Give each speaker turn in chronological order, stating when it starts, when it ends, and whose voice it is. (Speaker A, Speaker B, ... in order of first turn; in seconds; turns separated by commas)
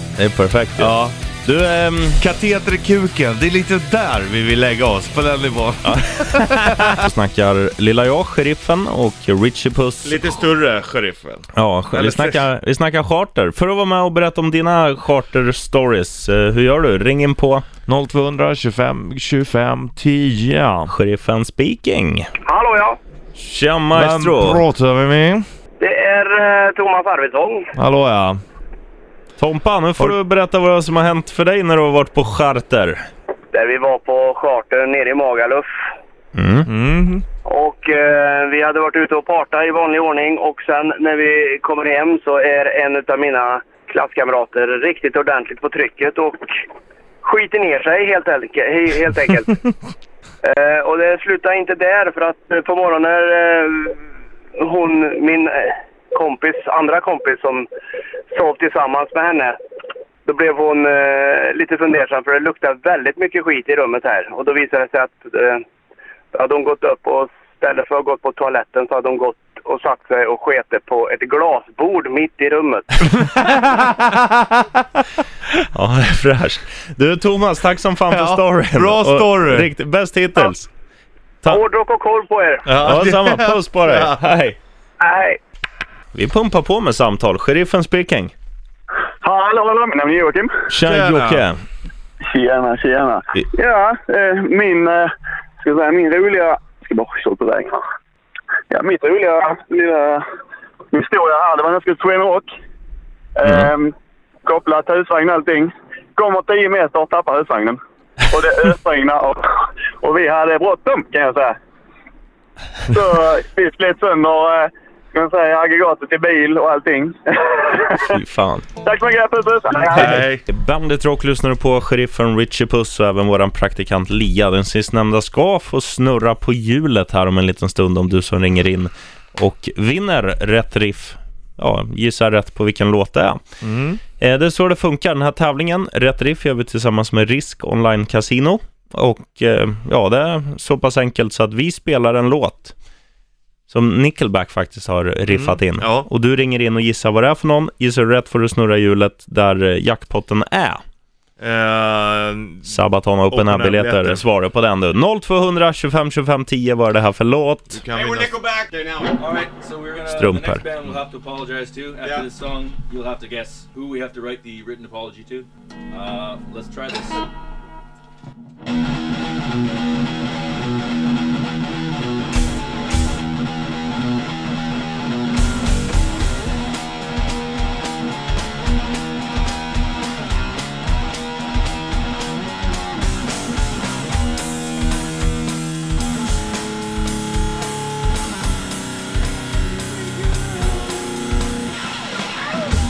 Speaker A: 0.2-2.2, Speaker B: 0.8-1.2, Speaker B: 2.2-7.0, Speaker A: 5.8-10.4, Speaker B: 10.0-12.4, Speaker A: 11.6-17.7, Speaker B: 17.9-20.9, Speaker A: 20.9-22.3, Speaker C: 22.5-23.0, Speaker A: 23.4-24.6, Speaker B: 23.9-25.5, Speaker C: 25.8-27.7, Speaker B: 27.8-28.4, Speaker A: 29.4-33.1, Speaker C: 33.5-35.7, Speaker A: 36.4-36.7, Speaker B: 36.7-37.2, Speaker C: 37.5-46.5, Speaker C: 47.2-49.6, Speaker C: 50.4-54.1, Speaker C: 54.6-57.7, Speaker C: 58.3-59.6, Speaker C: 60.3-65.7, Speaker C: 66.3-73.1, Speaker B: 73.2-74.8, Speaker A: 75.7-80.7, Speaker B: 78.1-79.7, Speaker C: 81.5-82.7, Speaker B: 82.7-84.2, Speaker A: 82.8-84.6, Speaker C: 85.0-85.4, Speaker A: 86.1-88.3, Speaker D: 89.2-90.6, Speaker A: 90.7-91.6, Speaker B: 90.8-91.5, Speaker D: 92.3-97.8, Speaker D: 98.7-100.2, Speaker D: 100.9-102.5, Speaker D: 103.4-103.9, Speaker D: 104.5-111.6, Speaker D: 112.9-118.2, Speaker A: 118.1-118.7, Speaker D: 118.8-120.2, Speaker B: 119.8-120.4, Speaker A: 120.0-133.4, Speaker B: 133.6-134.0, Speaker A: 134.2-142.8, Speaker A: 143.7-150.8, Speaker B: 145.3-146.1, Speaker B: 151.4-154.2, Speaker A: 152.7-157.8, Speaker B: 157.7-158.4, Speaker E: 157.9-167.3, Speaker A: 160.1-160.7